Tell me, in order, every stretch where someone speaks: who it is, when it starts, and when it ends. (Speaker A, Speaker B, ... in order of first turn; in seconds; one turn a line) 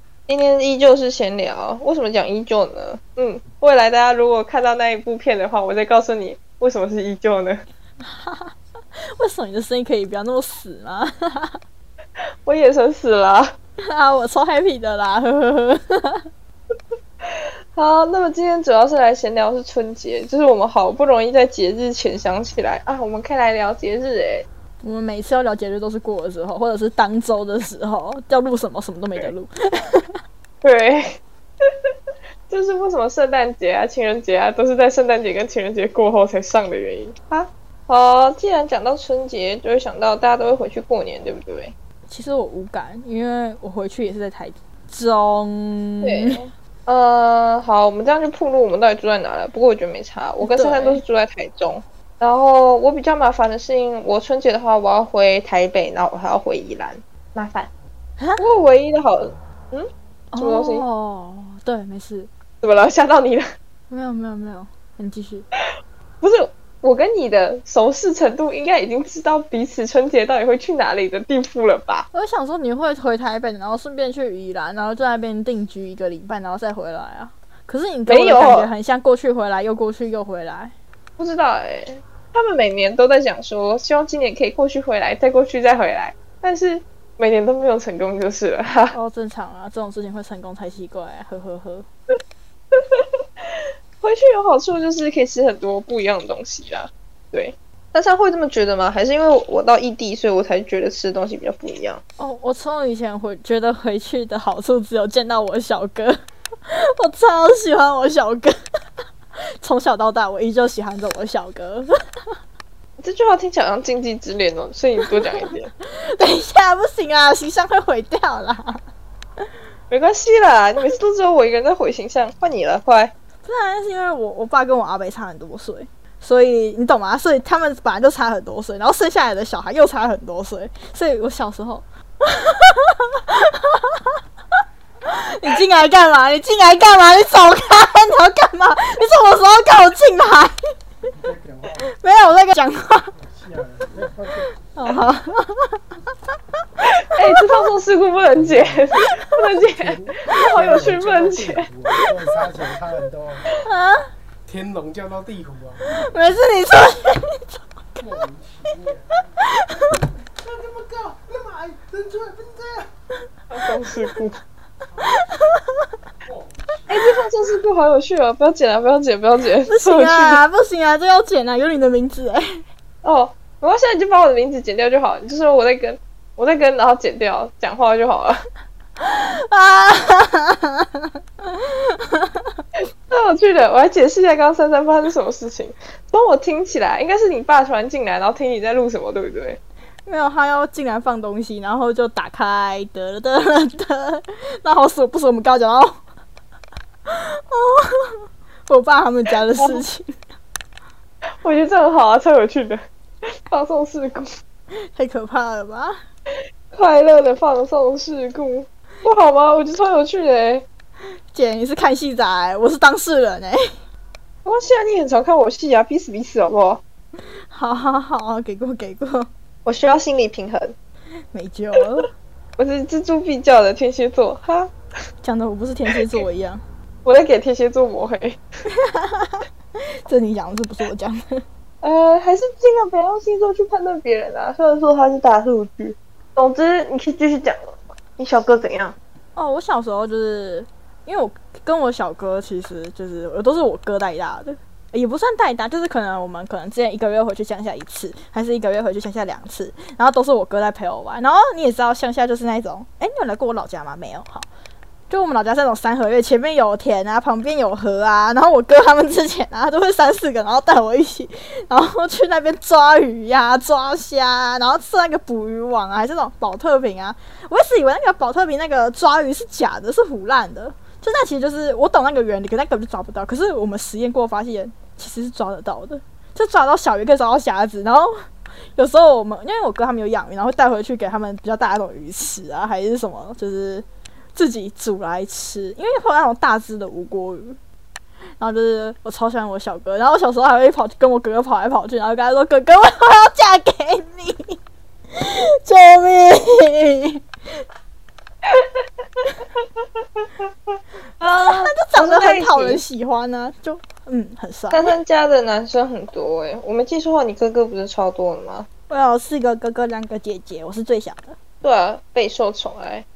Speaker A: 0.3-7.6
Speaker B: 8.0-8.6
Speaker B: 9.2-11.6
Speaker A: 12.5-13.5
Speaker B: 13.9-16.3
Speaker A: 17.3-24.5
Speaker B: 24.8-30.2
Speaker A: 30.6-31.2
Speaker A: 32.5-41.7
Speaker B: 42.1-46.4
Speaker A: 46.0-57.7
Speaker B: 50.4-51.0
Speaker A: 58.4-60.8
Speaker B: 60.3-62.3
Speaker A: 62.6-63.5
Speaker B: 63.9-65.5
Speaker A: 66.2-72.1
Speaker B: 72.1-80.7
Speaker A: 78.1-78.7
Speaker A: 81.2-88.9
Speaker B: 88.9-91.9
Speaker A: 92.7-102.0
Speaker B: 102.2-106.2
Speaker B: 106.7-108.5
Speaker B: 109.6-111.9
Speaker A: 113.0-115.7
Speaker B: 115.0-115.4
Speaker B: 116.1-118.8
Speaker A: 119.9-123.1
Speaker B: 123.5-134.2
Speaker B: 135.1-140.6
Speaker C: 141.1-141.9
Speaker B: 141.9-143.1
Speaker C: 143.2-144.5
Speaker B: 144.8-145.8
Speaker A: 147.0-151.7
Speaker C: 148.3-148.8
Speaker C: 149.7-153.5
Speaker B: 152.0-152.4
Speaker B: 153.5-154.1
Speaker C: 154.5-155.8
Speaker B: 155.8-158.2
Speaker C: 158.0-159.1
Speaker B: 159.4-160.1
Speaker C: 160.4-162.9
Speaker A: 163.5-164.4
Speaker B: 165.0-165.9
Speaker C: 166.3-166.7
Speaker A: 166.9-170.4
Speaker B: 169.7-172.6
Speaker A: 173.0-178.4
Speaker B: 179.0-181.5
Speaker B: 182.1-182.6
Speaker A: 183.1-189.6
Speaker B: 190.1-196.0
Speaker B: 197.1-200.2
Speaker A: 199.6-199.8
Speaker A: 201.4-202.8
Speaker A: 203.5-204.3
Speaker B: 204.9-206.0
Speaker A: 206.7-210.7
Speaker B: 211.3-213.6
Speaker A: 214.4-216.8
Speaker B: 217.5-219.3
Speaker A: 219.7-220.8
Speaker B: 221.3-222.1
Speaker A: 222.6-224.7
Speaker B: 225.2-226.6
Speaker A: 227.1-228.4
Speaker B: 228.8-229.4
Speaker B: 230.1-231.4
Speaker A: 231.8-239.0
Speaker B: 239.4-254.5
Speaker B: 255.1-278.1
Speaker B: 278.8-287.6
Speaker B: 288.4-294.6
Speaker B: 295.1-297.2
Speaker A: 298.5-302.8
Speaker B: 301.3-304.9
Speaker A: 304.7-308.7
Speaker B: 308.9-311.4
Speaker A: 311.6-313.1